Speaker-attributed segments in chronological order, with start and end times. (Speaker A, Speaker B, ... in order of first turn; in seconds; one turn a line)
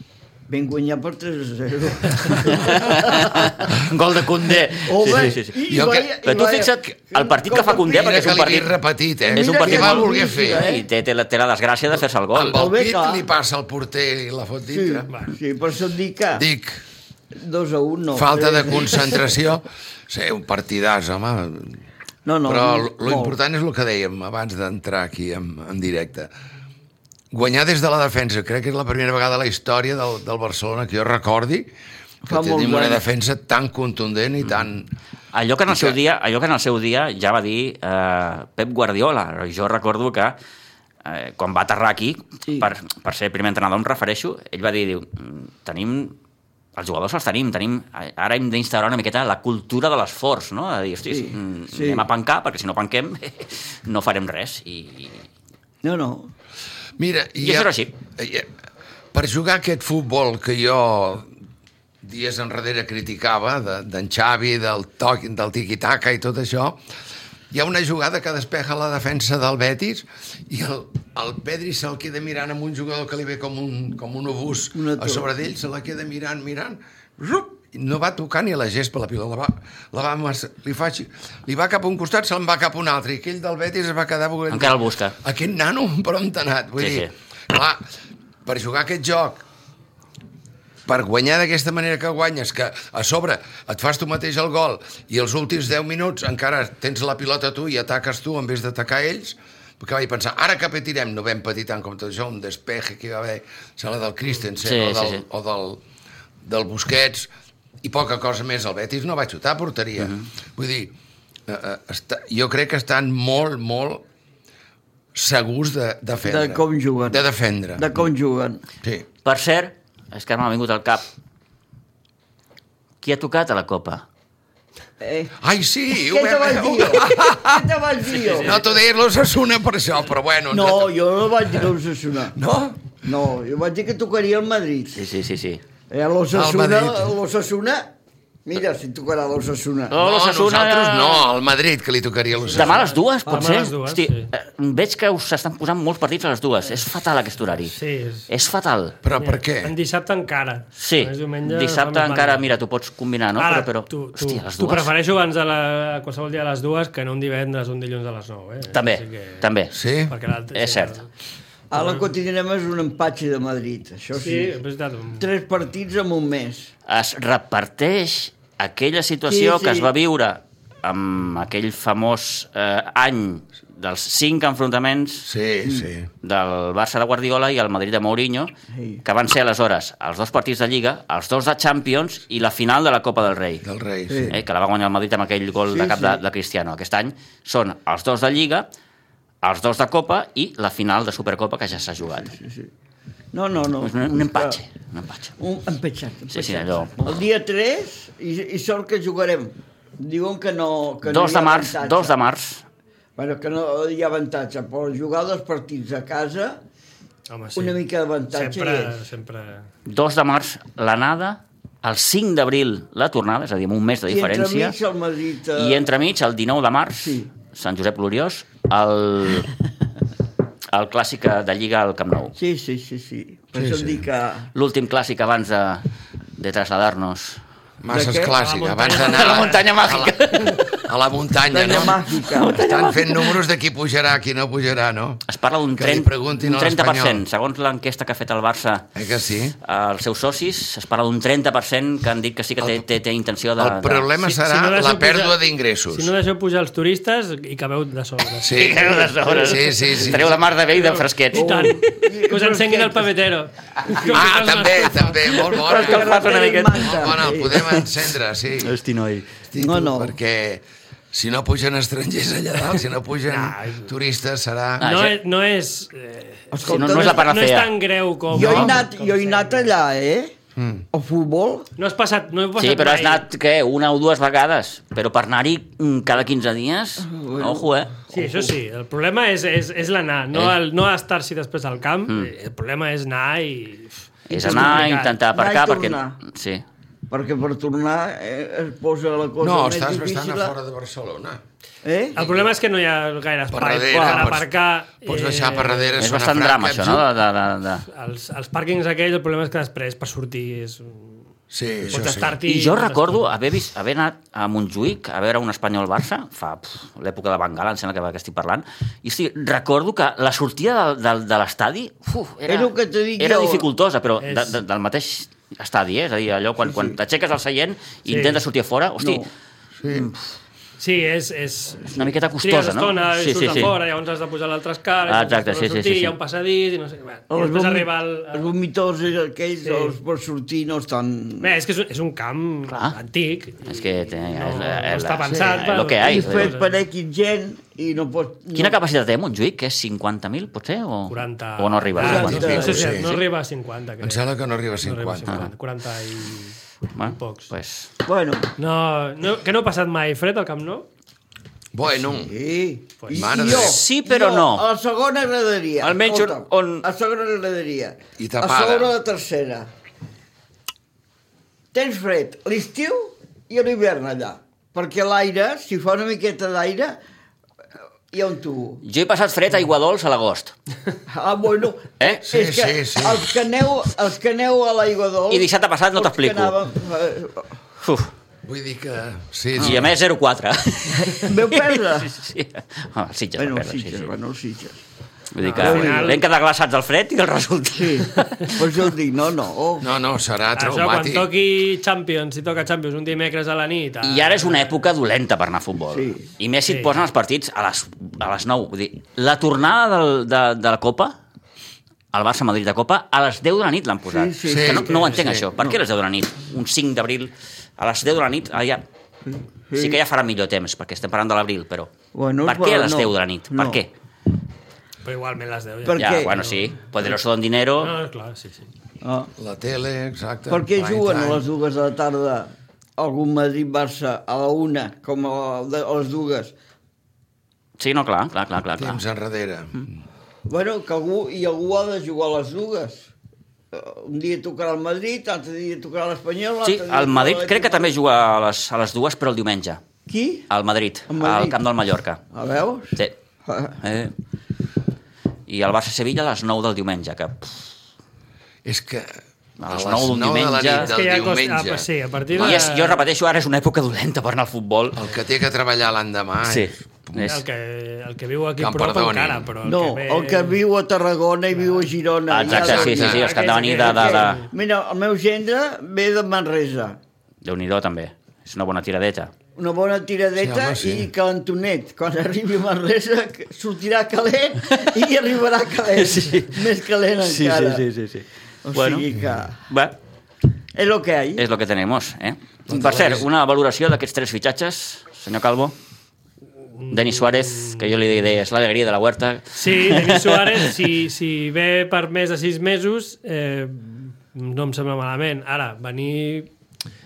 Speaker A: 0.5-3.7
Speaker B: 2.4-5.6
Speaker A: 4.8-8.6
Speaker C: 5.7-6.1
Speaker B: 6.2-8.7
Speaker C: 7.9-10.7
Speaker A: 9.2-10.9
Speaker B: 9.3-12.6
Speaker C: 12.3-15.1
Speaker A: 12.5-13.3
Speaker A: 14.7-16.4
Speaker D: 15.1-15.3
Speaker C: 16.3-16.8
Speaker A: 17.3-19.3
Speaker C: 18.1-21.8
Speaker A: 22.2-23.4
Speaker C: 22.4-26.3
Speaker C: 27.3-31.7
Speaker A: 32.2-33.0
Speaker C: 32.2-34.9
Speaker B: 35.3-40.4
Speaker C: 35.7-36.0
Speaker B: 41.0-46.1
Speaker B: 46.8-55.2
Speaker A: 51.1-52.1
Speaker A: 55.8-56.3
Speaker C: 57.0-58.5
Speaker B: 57.4-57.9
Speaker C: 59.1-61.3
Speaker C: 62.0-66.8
Speaker C: 67.5-87.8
Speaker A: 74.7-75.3
Speaker B: 84.5-85.2
Speaker B: 86.8-87.1
Speaker C: 88.4-89.4
Speaker C: 90.8-105.8
Speaker B: 104.6-105.2
Speaker C: 106.4-107.3
Speaker C: 107.8-110.9
Speaker C: 111.5-114.0
Speaker C: 115.1-117.8
Speaker A: 116.2-117.2
Speaker A: 117.7-118.6
Speaker B: 119.2-121.1
Speaker B: 123.0-124.0
Speaker A: 125.0-125.3
Speaker C: 125.4-127.7
Speaker A: 125.9-128.7
Speaker C: 128.3-130.9
Speaker A: 130.5-132.3
Speaker C: 132.3-132.9
Speaker A: 133.0-135.1
Speaker B: 134.9-135.6
Speaker A: 135.9-137.9
Speaker C: 136.3-137.1
Speaker A: 138.4-140.0
Speaker B: 139.9-141.3
Speaker C: 139.9-142.9
Speaker D: 142.5-144.3
Speaker B: 142.5-147.7
Speaker D: 147.7-148.3
Speaker B: 148.3-149.0
Speaker C: 149.0-149.7
Speaker D: 149.2-152.4
Speaker B: 150.8-154.9
Speaker D: 153.4-159.4
Speaker B: 158.7-159.7
Speaker C: 159.7-160.1
Speaker D: 160.1-161.1
Speaker B: 160.5-161.0
Speaker A: 161.7-164.6
Speaker D: 161.7-162.1
Speaker D: 164.2-165.3
Speaker A: 165.2-166.7
Speaker B: 166.9-175.3
Speaker A: 169.3-169.9
Speaker C: 175.2-176.1
Speaker B: 176.2-178.5
Speaker A: 178.7-179.0
Speaker B: 179.0-183.6
Speaker C: 183.6-184.3
Speaker A: 184.1-184.4
Speaker B: 184.3-188.7
Speaker A: 185.7-186.2
Speaker B: 189.4-192.3
Speaker A: 192.0-192.7
Speaker A: 193.3-194.6
Speaker B: 193.8-195.3
Speaker A: 195.4-202.2
Speaker B: 196.3-197.1
Speaker B: 201.1-202.6
Speaker A: 203.2-206.6
Speaker D: 207.3-207.8
Speaker A: 207.5-209.0
Speaker D: 208.3-209.7
Speaker B: 209.8-214.8
Speaker A: 214.1-215.9
Speaker B: 215.5-219.5
Speaker A: 217.0-217.3
Speaker B: 220.7-222.3
Speaker A: 222.3-224.5
Speaker C: 223.6-224.0
Speaker B: 224.5-225.8
Speaker B: 226.4-227.4
Speaker C: 227.8-232.0
Speaker A: 227.9-228.4
Speaker D: 228.3-229.7
Speaker B: 228.9-230.8
Speaker A: 231.5-233.0
Speaker B: 232.3-233.3
Speaker C: 232.5-235.2
Speaker B: 235.3-238.9
Speaker C: 235.8-237.2
Speaker C: 238.9-239.6
Speaker B: 239.6-244.1
Speaker C: 243.6-246.1
Speaker D: 244.2-245.4
Speaker D: 245.9-248.9
Speaker C: 248.4-250.4
Speaker B: 248.5-251.7
Speaker A: 249.1-249.6
Speaker D: 250.7-255.4
Speaker A: 251.3-253.1
Speaker A: 253.8-254.3
Speaker C: 254.0-256.2
Speaker B: 255.4-257.1
Speaker A: 255.5-257.8
Speaker C: 256.8-258.8
Speaker B: 258.6-259.3
Speaker C: 259.5-264.9
Speaker A: 259.6-260.2
Speaker D: 263.3-263.9
Speaker B: 264.8-265.1
Speaker D: 264.8-269.7
Speaker A: 266.5-267.3
Speaker B: 266.6-267.7
Speaker A: 268.3-270.3
Speaker B: 268.4-268.6
Speaker C: 270.6-270.8
Speaker A: 270.9-271.7
Speaker D: 271.8-273.2
Speaker B: 272.6-277.9
Speaker A: 277.0-278.5
Speaker D: 278.1-285.1
Speaker B: 280.3-280.6
Speaker B: 284.3-286.6
Speaker A: 284.3-286.2
Speaker A: 287.1-290.5
Speaker C: 289.4-291.4
Speaker A: 291.8-292.2
Speaker D: 292.1-296.0
Speaker C: 292.2-292.5
Speaker C: 293.5-294.5
Speaker A: 293.6-294.3
Speaker C: 295.0-297.1
Speaker B: 296.0-297.9
Speaker D: 297.9-301.2
Speaker C: 301.5-302.4
Speaker D: 301.9-303.3
Speaker B: 302.4-319.2
Speaker A: 312.5-313.7
Speaker D: 314.2-314.6
Speaker A: 316.6-317.0
Speaker D: 318.1-318.4
Speaker A: 319.0-319.3
Speaker C: 319.8-320.1
Speaker B: 319.9-320.2
Speaker D: 320.8-328.5
Speaker B: 321.9-323.7
Speaker B: 325.1-326.1
Speaker A: 327.3-331.5
Speaker D: 329.6-329.9
Speaker D: 331.4-336.8
Speaker B: 332.7-332.9
Speaker B: 333.6-336.5
Speaker A: 336.0-338.8
Speaker B: 338.5-342.8
Speaker D: 341.1-344.2
Speaker A: 342.0-343.0
Speaker C: 342.1-343.2
Speaker C: 344.0-345.4
Speaker D: 344.8-347.5
Speaker B: 346.9-347.9
Speaker A: 348.0-348.5
Speaker D: 348.6-350.9
Speaker C: 351.7-352.3
Speaker A: 351.9-359.7
Speaker D: 353.0-353.3
Speaker C: 353.1-353.8
Speaker B: 353.4-354.6
Speaker B: 355.8-356.8
Speaker C: 358.2-358.9
Speaker A: 361.7-367.0
Speaker A: 368.1-368.8
Speaker B: 368.8-370.5
Speaker A: 371.1-377.5
Speaker B: 372.0-372.2
Speaker C: 372.2-373.3
Speaker B: 375.3-376.6
Speaker B: 377.8-378.1
Speaker C: 378.4-379.9
Speaker A: 379.6-379.8
Speaker B: 379.6-384.1
Speaker A: 380.9-382.1
Speaker A: 383.4-384.8
Speaker B: 385.3-388.7
Speaker D: 385.4-386.2
Speaker A: 385.5-386.2
Speaker A: 387.7-389.9
Speaker C: 389.8-391.3
Speaker D: 390.6-394.8
Speaker B: 394.0-401.1
Speaker A: 395.9-396.3
Speaker D: 396.7-396.9
Speaker B: 402.1-408.8
Speaker A: 404.1-405.7
Speaker C: 404.5-405.1
Speaker A: 409.2-410.0
Speaker B: 409.7-411.9
Speaker A: 412.1-413.8
Speaker B: 412.4-413.9
Speaker D: 415.0-416.8
Speaker A: 415.8-416.4
Speaker B: 415.9-417.9
Speaker D: 417.8-418.7
Speaker A: 419.0-419.3
Speaker C: 419.4-421.4
Speaker A: 420.5-426.5
Speaker B: 427.8-429.0
Speaker C: 428.8-429.9
Speaker A: 430.5-433.1
Speaker A: 433.7-437.9
Speaker B: 436.6-439.8
Speaker A: 440.1-440.5
Speaker B: 440.5-442.2
Speaker A: 441.1-441.6
Speaker A: 442.3-443.8
Speaker B: 443.8-444.1
Speaker B: 445.5-447.7
Speaker C: 448.6-449.2
Speaker B: 449.6-450.9
Speaker C: 449.7-451.9
Speaker D: 450.8-453.0
Speaker B: 452.3-455.0
Speaker C: 454.9-457.3
Speaker B: 456.4-457.4
Speaker D: 457.2-460.6
Speaker C: 458.6-459.5
Speaker A: 459.6-467.0
Speaker D: 461.6-461.9
Speaker B: 462.3-464.4
Speaker C: 462.5-463.2
Speaker D: 463.0-464.5
Speaker B: 467.4-469.3
Speaker A: 469.6-477.8
Speaker C: 470.4-471.1
Speaker B: 475.9-476.7
Speaker B: 477.2-479.1
Speaker A: 478.6-479.6
Speaker B: 479.7-479.9
Speaker A: 480.7-481.4
Speaker B: 481.4-485.7
Speaker C: 482.7-483.3
Speaker D: 486.7-488.1
Speaker B: 486.9-490.7
Speaker D: 489.5-496.5